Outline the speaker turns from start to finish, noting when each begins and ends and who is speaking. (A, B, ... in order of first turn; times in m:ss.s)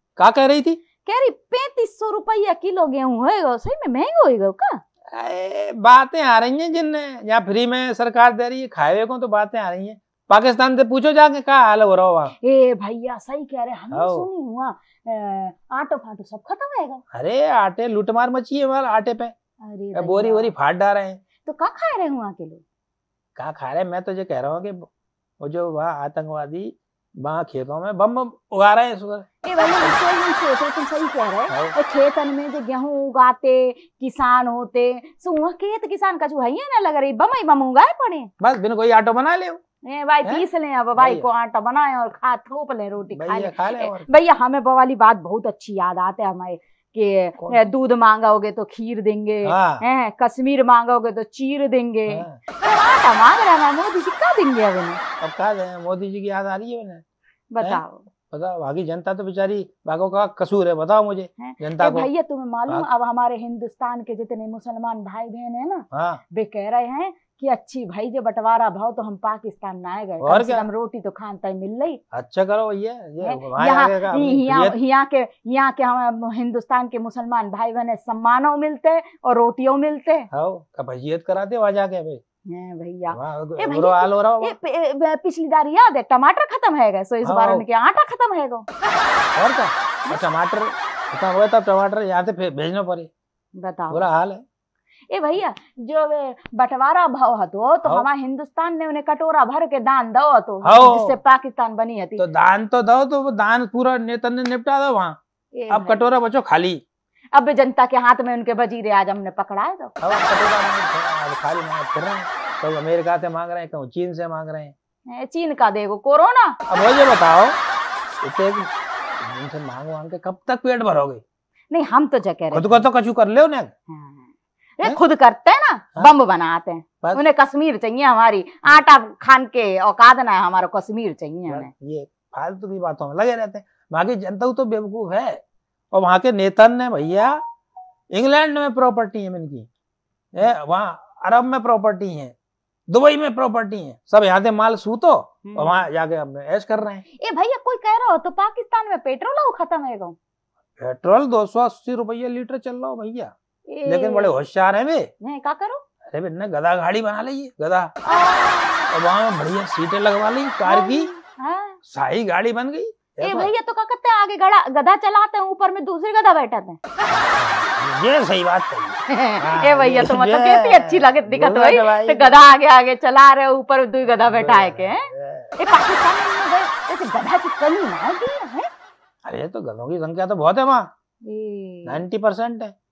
0:00.2-0:00.8 A
0:01.0-0:04.8 B
0:05.1-0:12.4 A
0:12.4-0:17.0 B
0:13.9-0:14.3 A
0:17.1-0:19.3 A
0:19.6-0:20.5 B
0:20.0-0:21.2 A
0:21.4-0:22.6 B
0:23.4-0:24.9 A
0:25.4-0:30.0 A
0:29.4-0:38.3 B
0:31.5-0:31.8 A
0:38.4-0:39.6 A
0:39.8-0:55.0 B
0:41.0-0:41.3 A
0:43.1-0:44.1 A
0:49.4-0:49.8 A
0:52.1-0:52.4 A
0:55.2-0:57.0 A
0:57.5-0:58.1 B
0:57.6-1:02.1 A
1:01.4-1:12.0 B
1:05.9-1:06.2 A
1:10.2-1:10.7 A
1:12.1-1:14.8 A
1:13.2-1:20.3 B
1:20.3-1:22.2 A
1:22.5-1:28.7 B
1:23.1-1:24.6 A
1:27.2-1:27.6 A
1:29.4-1:33.1 A
1:33.6-1:34.1 B
1:33.9-1:34.4 A
1:35.1-1:42.2 B
1:40.6-1:41.2 A
1:42.2-1:45.2 A
1:45.6-1:46.1 B
1:45.7-1:46.8 A
1:47.3-1:49.9 B
1:50.0-1:54.7 A
1:55.1-1:56.6 B
1:56.7-1:57.6 A
1:58.2-1:58.7 A
1:59.2-2:01.2 A
2:01.7-2:02.9 B
2:02.5-2:03.7 A
2:03.9-2:11.7 B
2:11.5-2:15.4 A
2:15.9-2:17.4 A
2:18.1-2:19.7 A
2:20.3-2:22.3 A
2:22.9-2:27.0 A
2:25.4-2:25.8 B
2:27.2-2:30.2 B
2:30.8-2:33.3 A
2:33.7-2:34.4 B
2:33.8-2:35.1 A
2:35.2-2:35.8 B
2:36.1-2:37.9 A
2:38.1-2:38.9 B
2:38.9-2:41.1 A
2:40.6-2:41.8 B
2:41.9-2:43.5 A
2:43.2-2:46.8 B
2:47.1-2:52.4 A
2:49.1-2:58.7 B
2:54.1-2:55.6 A
2:59.2-3:00.9 A
3:01.2-3:02.0 B
3:01.9-3:02.7 A